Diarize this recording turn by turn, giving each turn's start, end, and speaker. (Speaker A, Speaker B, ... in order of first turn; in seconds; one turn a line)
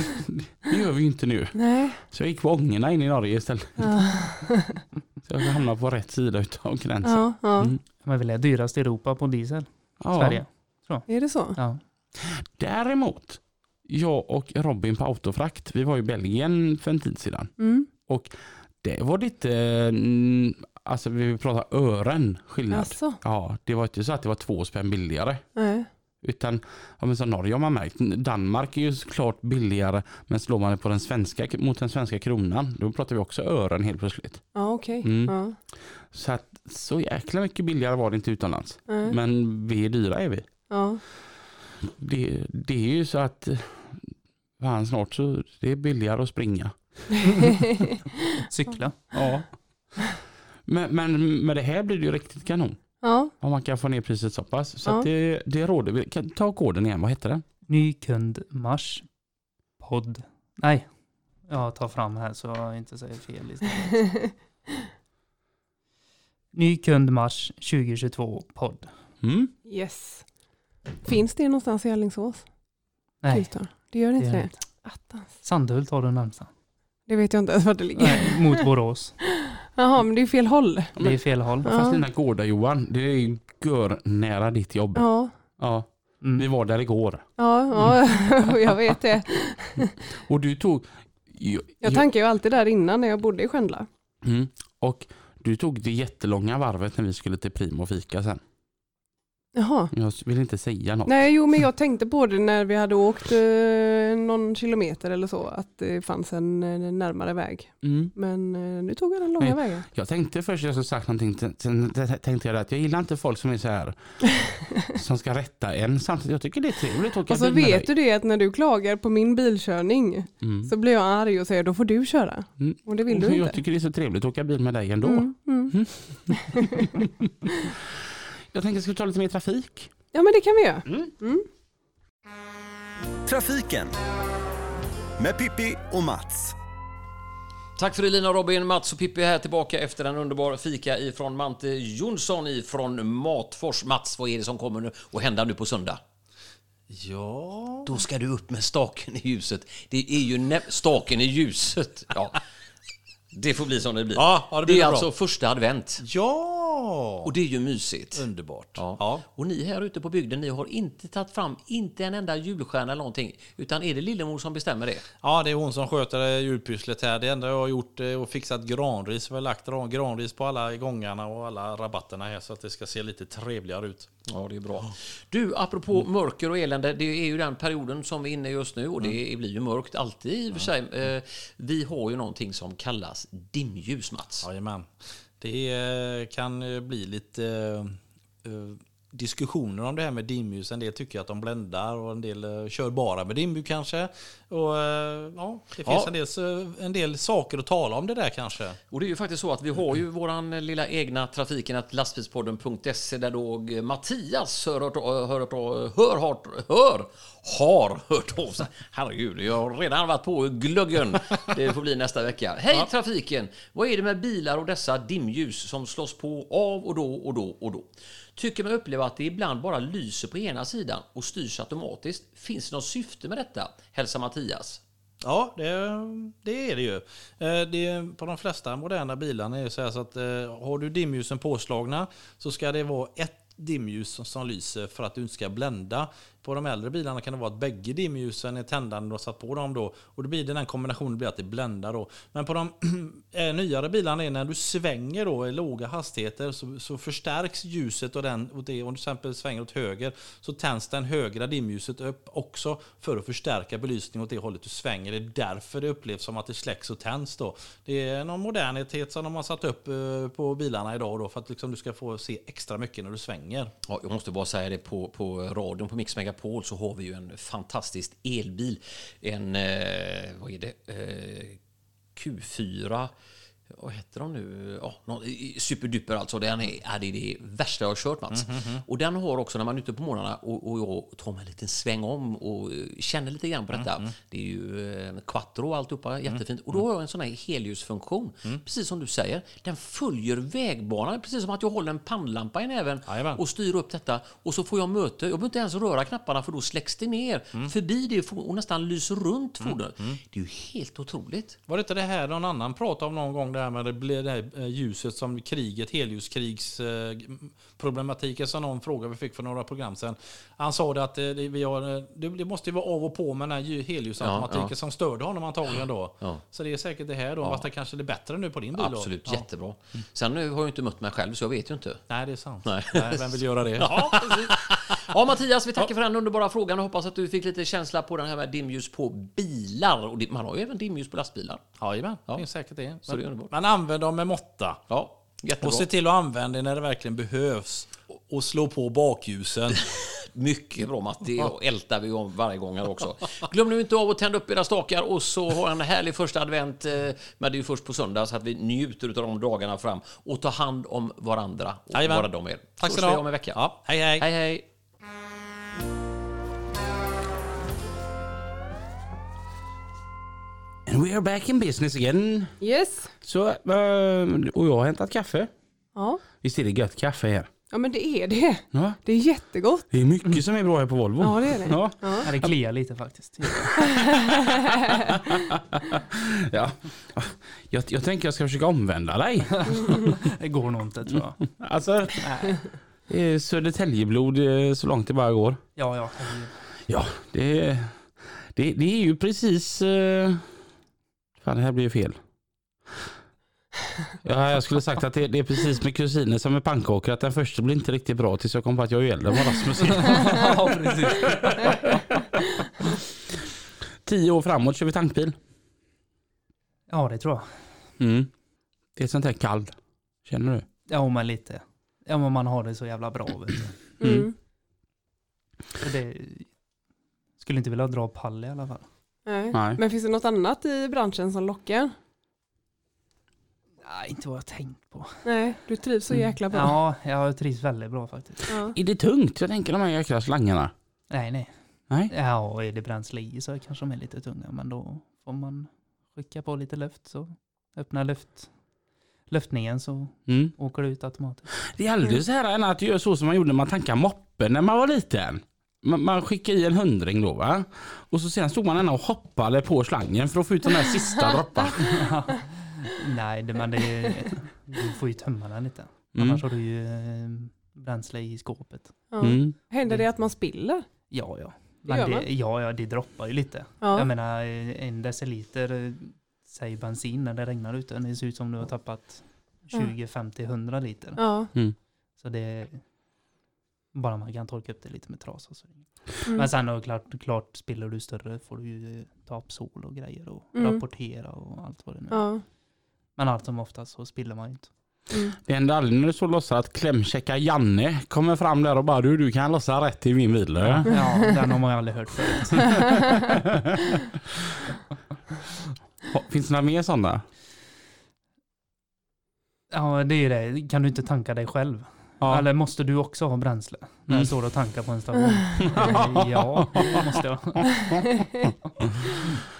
Speaker A: 0.3-3.9
Speaker B: 1.6-2.0
Speaker B: 3.8-4.8
Speaker A: 5.2-7.8
Speaker B: 7.0-7.8
Speaker C: 8.0-11.8
Speaker A: 10.0-10.4
Speaker B: 11.1-11.6
Speaker A: 12.2-25.5
Speaker B: 17.6-17.9
Speaker B: 22.7-23.2
Speaker B: 25.6-25.9
Speaker A: 26.2-47.5
Speaker B: 34.5-35.6
Speaker B: 38.9-39.2
Speaker B: 40.7-41.0
Speaker C: 48.5-49.3
Speaker A: 49.1-50.1
Speaker A: 50.6-57.4
Speaker B: 53.0-53.3
Speaker C: 57.7-59.1
Speaker C: 59.8-60.9
Speaker C: 61.4-64.1
Speaker C: 66.5-68.9
Speaker A: 69.2-69.5
Speaker B: 69.7-72.5
Speaker C: 73.2-76.5
Speaker B: 73.3-75.3
Speaker B: 77.0-78.5
Speaker C: 77.9-79.2
Speaker B: 79.7-81.0
Speaker A: 81.0-87.3
Speaker C: 81.0-81.7
Speaker B: 81.6-82.0
Speaker B: 84.9-85.3
Speaker C: 86.2-86.5
Speaker B: 87.4-89.9
Speaker A: 90.2-92.0
Speaker B: 91.8-93.9
Speaker A: 94.2-98.4
Speaker B: 99.5-99.9
Speaker A: 99.9-101.3
Speaker B: 101.0-109.8
Speaker A: 107.8-108.1
Speaker A: 109.4-117.9
Speaker B: 117.3-123.6
Speaker A: 120.4-120.7
Speaker A: 122.6-126.8
Speaker B: 125.0-127.0
Speaker A: 128.5-129.9
Speaker B: 130.1-131.4
Speaker D: 133.2-134.0
Speaker D: 135.2-136.5
Speaker E: 137.8-146.0
Speaker F: 146.9-148.0
Speaker E: 147.8-152.4
Speaker E: 153.3-156.0
Speaker F: 154.2-155.1
Speaker F: 156.0-157.3
Speaker E: 157.2-165.1
Speaker F: 158.1-159.2
Speaker F: 165.2-174.1
Speaker E: 174.3-184.5
Speaker F: 184.4-198.8
Speaker E: 195.8-196.1
Speaker E: 198.9-224.8
Speaker F: 225.2-263.7
Speaker E: 263.8-271.6
Speaker E: 272.1-273.1
Speaker E: 273.7-301.6
Speaker F: 278.3-278.8
Speaker F: 283.7-284.1
Speaker F: 293.1-293.4
Speaker F: 299.6-300.2
Speaker F: 301.7-319.4
Speaker E: 314.2-314.7
Speaker E: 318.8-322.0
Speaker F: 322.1-325.1
Speaker E: 322.6-331.6
Speaker F: 331.8-334.8
Speaker E: 333.1-333.5
Speaker E: 334.9-335.9
Speaker F: 335.6-339.8
Speaker E: 339.9-354.6
Speaker F: 351.9-352.3
Speaker F: 352.8-354.2
Speaker A: 360.9-362.6
Speaker B: 362.6-363.1
Speaker A: 363.2-365.5
Speaker B: 365.9-366.2
Speaker A: 366.4-367.5
Speaker B: 367.7-369.9
Speaker A: 368.7-369.0
Speaker A: 369.9-372.5
Speaker B: 371.2-372.3
Speaker C: 372.2-373.8
Speaker B: 374.0-374.8
Speaker A: 375.1-380.2
Speaker C: 379.6-382.6
Speaker A: 381.6-385.6
Speaker C: 385.8-386.6
Speaker A: 386.9-390.6
Speaker A: 391.4-392.2
Speaker A: 394.2-401.9
Speaker C: 400.1-402.0
Speaker A: 404.0-405.4
Speaker C: 406.9-407.7
Speaker A: 408.0-408.3
Speaker A: 408.9-410.6
Speaker C: 410.9-413.8
Speaker A: 414.0-414.3
Speaker B: 414.0-414.3
Speaker C: 415.8-416.5
Speaker C: 417.4-418.9
Speaker B: 419.2-421.9
Speaker A: 419.5-419.8
Speaker C: 423.8-425.3
Speaker B: 425.2-426.8
Speaker C: 426.5-428.5
Speaker B: 428.5-428.8
Speaker A: 428.7-430.7
Speaker C: 431.1-431.6
Speaker C: 432.1-438.5
Speaker C: 439.3-441.5
Speaker A: 440.3-440.5
Speaker A: 441.7-452.0
Speaker C: 451.9-459.1
Speaker A: 456.1-456.4
Speaker B: 459.1-460.9
Speaker A: 459.2-459.5
Speaker C: 461.1-471.6
Speaker B: 461.9-462.2
Speaker B: 463.8-464.1
Speaker B: 471.2-471.5
Speaker C: 472.1-472.9
Speaker C: 473.9-482.6
Speaker B: 480.5-480.8
Speaker B: 482.1-482.4
Speaker C: 483.1-484.7
Speaker B: 485.1-485.4
Speaker A: 485.4-491.3
Speaker C: 490.6-493.0
Speaker A: 496.1-497.2
Speaker C: 499.7-507.8
Speaker A: 505.6-506.9
Speaker A: 507.6-509.3